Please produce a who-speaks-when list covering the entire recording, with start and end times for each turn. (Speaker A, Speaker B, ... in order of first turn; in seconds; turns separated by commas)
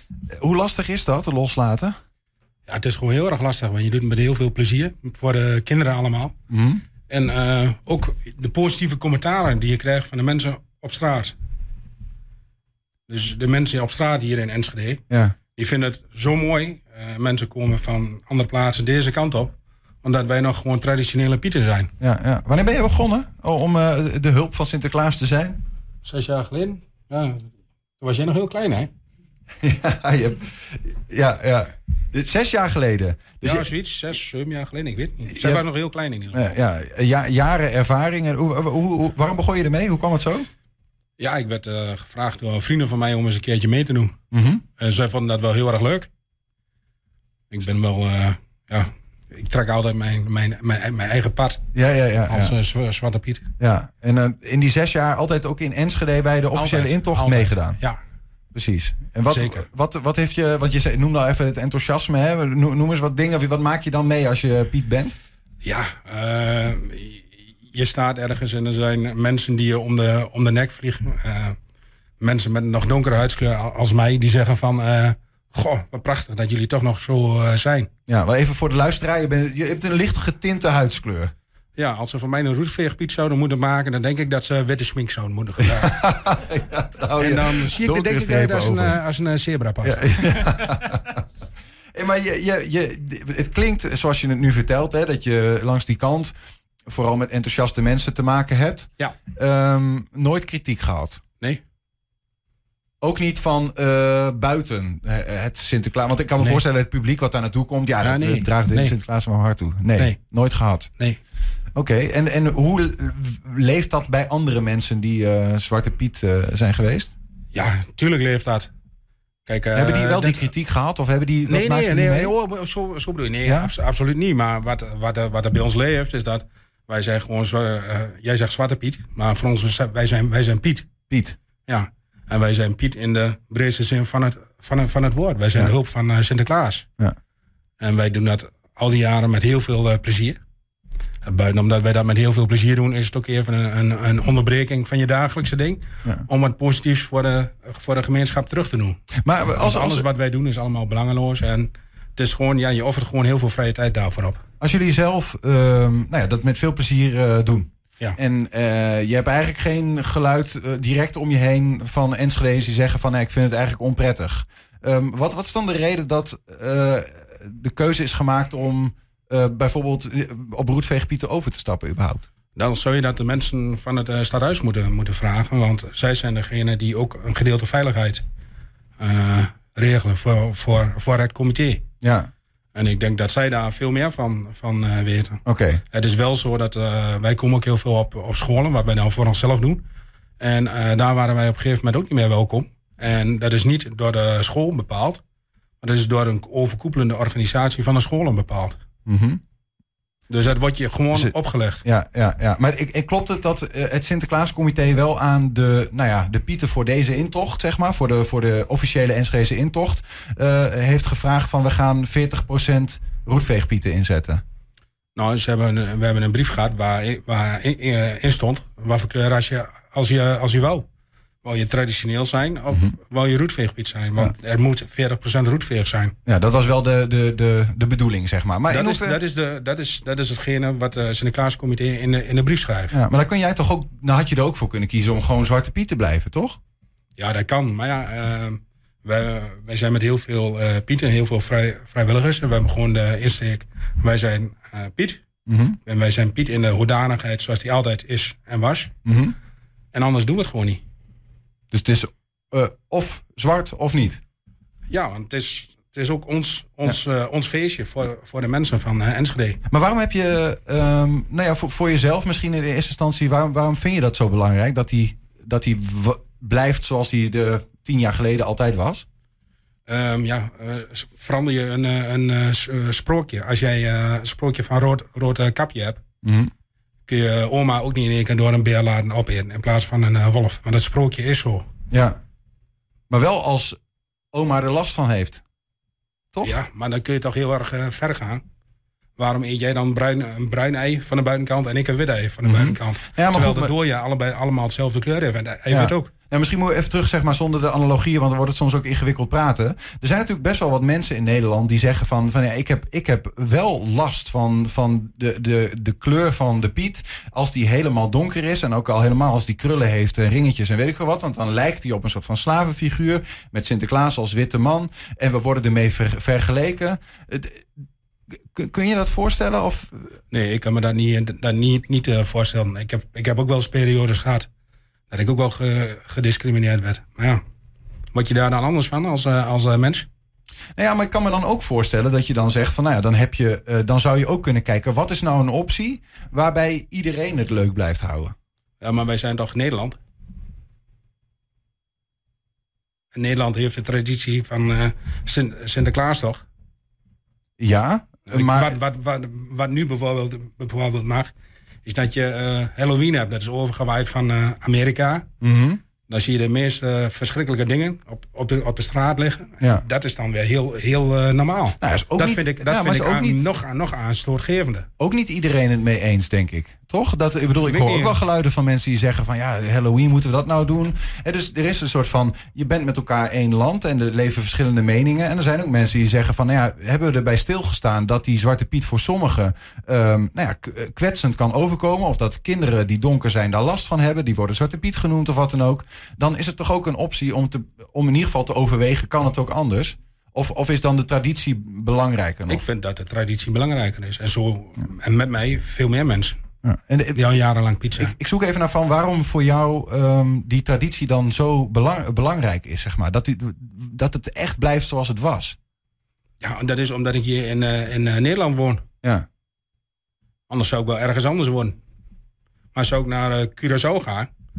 Speaker A: 0.3-2.0, Speaker B: 2.7-6.3, Speaker A: 6.5-6.8, Speaker B: 7.1-11.3, Speaker B: 13.1-15.0, Speaker A: 15.1-15.4, Speaker B: 15.6-21.9, Speaker A: 22.0-25.6, Speaker B: 26.0-27.4, Speaker B: 28.0-28.9, Speaker A: 29.6-33.7, Speaker B: 33.4-36.4, Speaker A: 35.3-35.6, Speaker A: 36.3-40.5, Speaker B: 41.2-44.1, Speaker A: 44.3-44.6, Speaker B: 44.8-46.1, Speaker B: 47.5-51.6, Speaker A: 51.7-52.5, Speaker B: 52.3-53.5, Speaker A: 53.6-57.8, Speaker B: 56.5-58.0, Speaker A: 58.5-65.2, Speaker B: 59.3-59.7, Speaker B: 65.6-71.6, Speaker B: 72.2-77.9, Speaker A: 78.1-81.3, Speaker B: 81.8-86.1, Speaker A: 85.8-89.0, Speaker B: 87.2-90.5, Speaker A: 89.8-91.2, Speaker A: 91.9-96.3, Speaker A: 96.9-101.2, Speaker A: 103.0-110.9, Speaker B: 108.0-109.0, Speaker A: 111.8-117.2, Speaker B: 117.5-118.7, Speaker B: 119.5-120.5, Speaker A: 119.8-122.3, Speaker B: 121.5-130.9, Speaker A: 123.5-123.7, Speaker A: 131.1-131.4, Speaker B: 131.7-136.9, Speaker B: 137.8-140.4, Speaker B: 141.2-154.4, Speaker A: 149.2-150.1, Speaker A: 154.6-172.3, Speaker B: 172.6-178.2, Speaker B: 179.0-181.8, Speaker A: 182.0-182.3, Speaker B: 182.8-189.8, Speaker A: 185.4-185.8, Speaker B: 190.4-195.2, Speaker B: 195.8-198.8, Speaker A: 199.1-199.4, Speaker B: 200.3-201.8, Speaker A: 201.1-214.4, Speaker B: 215.2-220.9, Speaker B: 221.4-226.1, Speaker A: 226.3-229.2, Speaker B: 228.7-233.0, Speaker A: 232.9-236.6, Speaker B: 237.2-245.2, Speaker A: 245.5-245.8, Speaker B: 245.9-248.9, Speaker A: 249.1-249.4, Speaker B: 249.9-250.8, Speaker A: 251.7-254.2, Speaker B: 254.9-259.6, Speaker A: 259.7-269.1, Speaker B: 269.9-276.0, Speaker A: 276.2-276.5, Speaker B: 277.1-281.7, Speaker A: 281.9-282.2, Speaker A: 283.1-283.8, Speaker A: 284.3-285.4, Speaker B: 286.4-288.4, Speaker B: 289.2-296.1, Speaker A: 292.5-293.7, Speaker A: 295.7-317.7, Speaker A: 318.5-320.1, Speaker B: 320.3-324.5, Speaker B: 325.1-327.4, Speaker B: 328.1-330.1, Speaker A: 330.8-338.3, Speaker B: 338.8-340.0, Speaker B: 343.1-346.4, Speaker A: 347.6-348.8, Speaker B: 348.3-351.3, Speaker B: 351.9-355.3, Speaker A: 355.4-355.8, Speaker B: 356.1-364.9, Speaker A: 361.8-363.4, Speaker A: 365.0-392.6, Speaker B: 367.6-368.2, Speaker B: 392.5-396.4, Speaker A: 396.6-397.2, Speaker B: 397.1-398.1, Speaker A: 398.0-405.6, Speaker B: 406.4-408.8, Speaker B: 410.5-411.8, Speaker B: 412.7-414.3